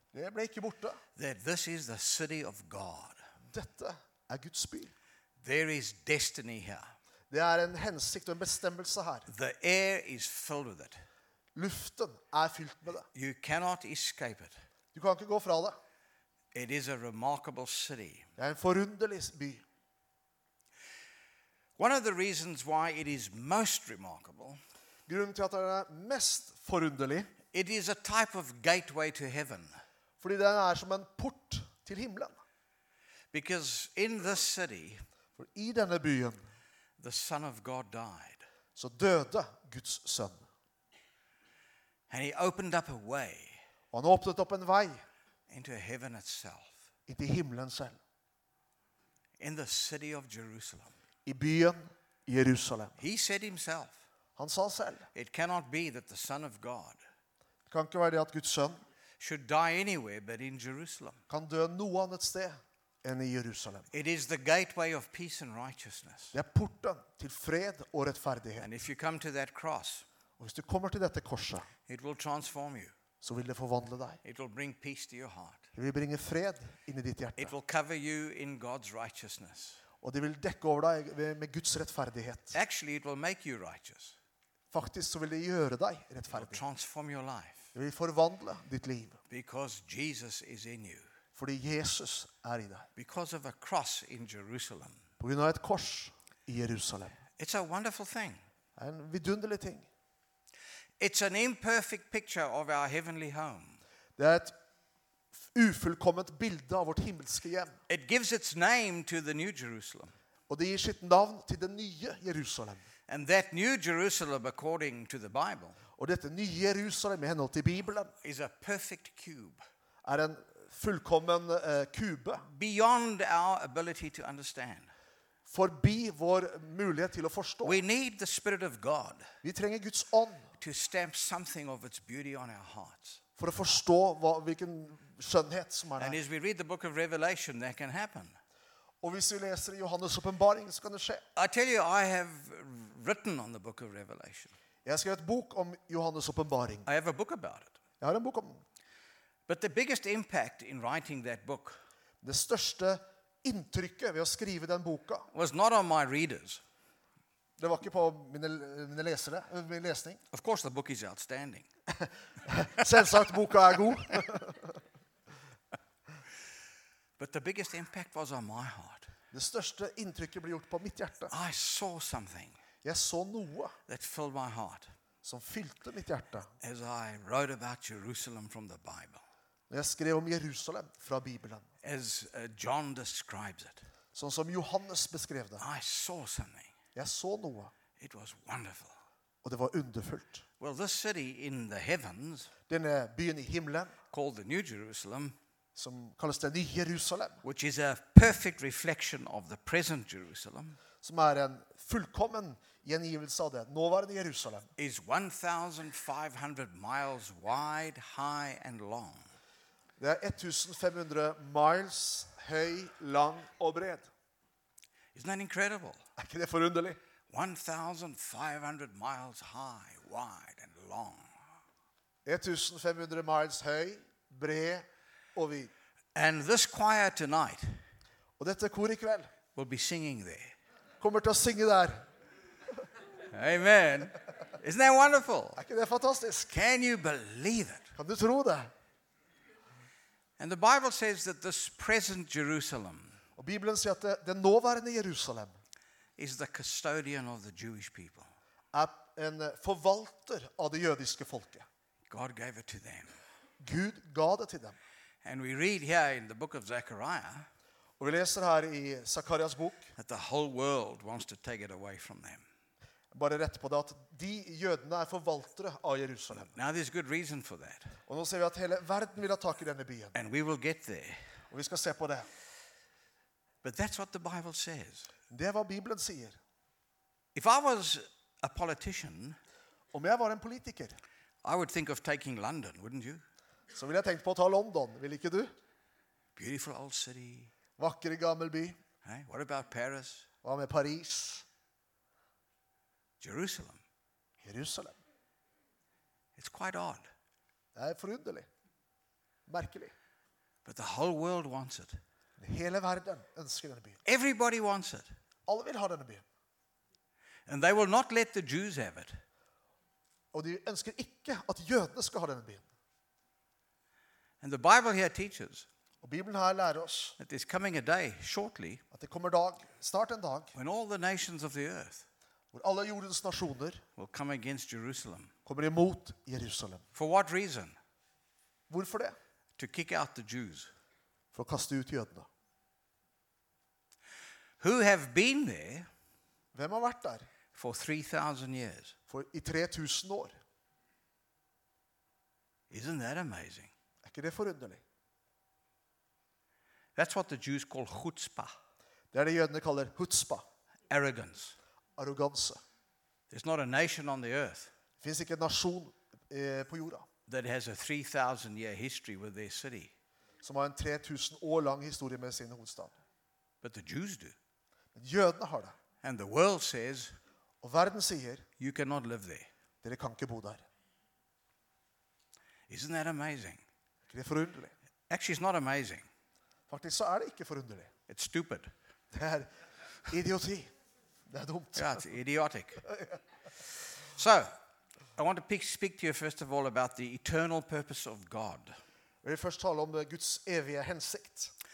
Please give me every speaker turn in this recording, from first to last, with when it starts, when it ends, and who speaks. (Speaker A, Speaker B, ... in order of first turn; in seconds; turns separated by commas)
Speaker A: 0.1-1.0, Speaker B: 1.2-3.2, Speaker A: 3.5-4.9, Speaker B: 5.4-6.9, Speaker A: 7.3-9.3, Speaker B: 9.3-11.0, Speaker A: 11.6-13.1, Speaker B: 13.1-14.6, Speaker A: 14.9-15.8, Speaker B: 16.5-18.3, Speaker A: 18.4-19.6, Speaker B: 21.8-24.6, Speaker A: 25.1-27.3, Speaker B: 27.5-29.8, Speaker A: 30.2-32.4, Speaker B: 33.3-35.0, Speaker A: 35.4-36.4, Speaker B: 37.0-38.4, Speaker A: 38.8-40.5, Speaker B: 42.1-43.6, Speaker A: 43.9-45.0, Speaker B: 45.5-46.8, Speaker A: 47.1-48.0, Speaker B: 49.4-50.9, Speaker A: 51.3-53.0, Speaker B: 53.0-54.0, Speaker A: 54.4-55.1, Speaker B: 55.1-57.0, Speaker A: 57.7-58.8, Speaker B: 59.2-61.2, Speaker A: 61.3-63.9, Speaker B: 63.9-66.3, Speaker A: 66.3-68.7, Speaker B: 68.6-70.0, Speaker A: 70.4-71.7, Speaker B: 71.9-72.9, Speaker A: 73.2-74.2, Speaker B: 74.2-75.7, Speaker A: 75.7-77.5, Speaker B: 77.4-79.8, Speaker A: 80.0-82.5, Speaker B: 82.5-84.2, Speaker A: 84.7-86.6, Speaker B: 86.3-87.7, Speaker A: 87.7-89.2, Speaker B: 89.3-91.1, Speaker A: 91.4-92.9, Speaker B: 93.0-95.0, Speaker A: 95.2-97.2, Speaker B: 97.4-98.4, Speaker A: 98.8-99.9, Speaker B: 101.0-103.8, Speaker A: 104.2-104.5, Speaker A: 105.5-107.8, Speaker B: 107.9-110.1, Speaker A: 110.5-112.8, Speaker B: 113.1-115.8, Speaker A: 116.0-118.1, Speaker B: 118.2-119.6, Speaker A: 120.0-122.4, Speaker B: 122.4-124.9, Speaker A: 125.5-127.8, Speaker B: 127.6-129.3, Speaker A: 129.4-130.5, Speaker B: 130.6-133.2, Speaker A: 133.4-136.2, Speaker B: 136.0-138.4, Speaker A: 139.0-141.2, Speaker B: 141.4-144.5, Speaker A: 144.8-146.9, Speaker B: 146.9-147.8, Speaker A: 148.0-148.6, Speaker B: 149.5-151.8, Speaker A: 152.2-155.3, Speaker B: 155.3-156.6, Speaker A: 157.6-160.2, Speaker B: 160.3-161.7, Speaker A: 162.0-164.7, Speaker B: 167.2-169.1, Speaker A: 169.3-171.3, Speaker B: 171.3-172.6, Speaker A: 172.8-173.8, Speaker B: 173.9-174.9, Speaker A: 175.2-176.5, Speaker B: 176.6-179.2, Speaker A: 179.7-181.7, Speaker B: 181.8-183.8, Speaker A: 184.2-185.6, Speaker B: 185.6-186.7, Speaker A: 186.9-187.7, Speaker B: 188.0-189.0, Speaker A: 189.4-190.4, Speaker B: 190.6-192.5, Speaker A: 192.7-193.9, Speaker B: 194.1-195.4, Speaker A: 195.8-197.4, Speaker B: 197.4-200.8, Speaker A: 201.0-204.7, Speaker B: 204.8-209.3, Speaker A: 210.0-214.1, Speaker B: 215.1-216.0, Speaker A: 216.2-217.0, Speaker B: 217.3-221.3, Speaker A: 222.2-225.7, Speaker B: 226.2-227.8, Speaker A: 228.4-229.3, Speaker B: 229.6-230.5, Speaker A: 231.0-232.1, Speaker B: 233.3-235.6, Speaker A: 235.6-236.5, Speaker B: 236.5-237.9, Speaker A: 238.0-238.7, Speaker B: 240.4-243.2, Speaker A: 243.4-245.6, Speaker B: 246.2-248.3, Speaker A: 248.7-251.7, Speaker B: 252.1-253.1, Speaker A: 253.6-254.8, Speaker B: 255.2-257.5, Speaker A: 258.0-259.9, Speaker B: 260.0-262.4, Speaker A: 263.1-266.5, Speaker B: 266.5-268.0, Speaker A: 268.1-270.1, Speaker B: 270.1-271.2, Speaker A: 271.5-272.3, Speaker B: 273.6-275.1, Speaker A: 275.3-276.4, Speaker B: 277.4-279.4, Speaker A: 279.9-281.0, Speaker B: 281.4-283.2, Speaker A: 283.7-285.5, Speaker B: 286.4-287.5, Speaker A: 287.8-288.8, Speaker B: 289.0-290.3, Speaker A: 290.4-291.4, Speaker B: 293.2-293.8, Speaker A: 294.4-295.0, Speaker B: 296.4-297.1, Speaker A: 297.8-298.5, Speaker A: 299.5-299.9, Speaker B: 300.6-302.0, Speaker A: 302.4-304.0, Speaker B: 304.1-305.1, Speaker A: 305.5-306.2, Speaker B: 307.5-309.2, Speaker A: 310.3-312.6, Speaker B: 314.4-315.7, Speaker A: 316.0-317.2, Speaker B: 317.2-318.8, Speaker A: 318.9-320.5, Speaker B: 320.5-322.1, Speaker A: 322.5-323.8, Speaker B: 324.0-325.3, Speaker A: 325.5-326.8, Speaker B: 326.9-327.8, Speaker A: 328.7-329.2, Speaker B: 329.6-330.7, Speaker A: 331.3-332.3, Speaker B: 334.6-335.9, Speaker A: 336.5-337.2, Speaker B: 337.5-338.9, Speaker A: 339.1-340.4, Speaker B: 342.7-343.7, Speaker A: 344.0-344.8, Speaker B: 347.0-348.5, Speaker A: 349.1-350.4, Speaker B: 350.9-351.6, Speaker A: 352.0-352.6, Speaker B: 353.3-354.7, Speaker A: 355.0-357.1, Speaker B: 357.3-359.9, Speaker A: 360.4-362.9, Speaker B: 363.6-364.4, Speaker A: 364.9-365.7, Speaker B: 366.0-367.1, Speaker A: 367.6-368.5, Speaker B: 368.6-369.5, Speaker A: 369.8-370.6, Speaker B: 372.7-373.6, Speaker A: 374.1-374.7, Speaker B: 375.1-376.1, Speaker A: 376.7-377.9, Speaker B: 378.1-378.7, Speaker A: 379.1-379.5, Speaker A: 380.1-380.7, Speaker A: 381.3-382.0, Speaker B: 381.8-382.9, Speaker A: 382.9-383.1, Speaker B: 384.1-384.5, Speaker B: 385.2-388.7, Speaker A: 389.2-391.5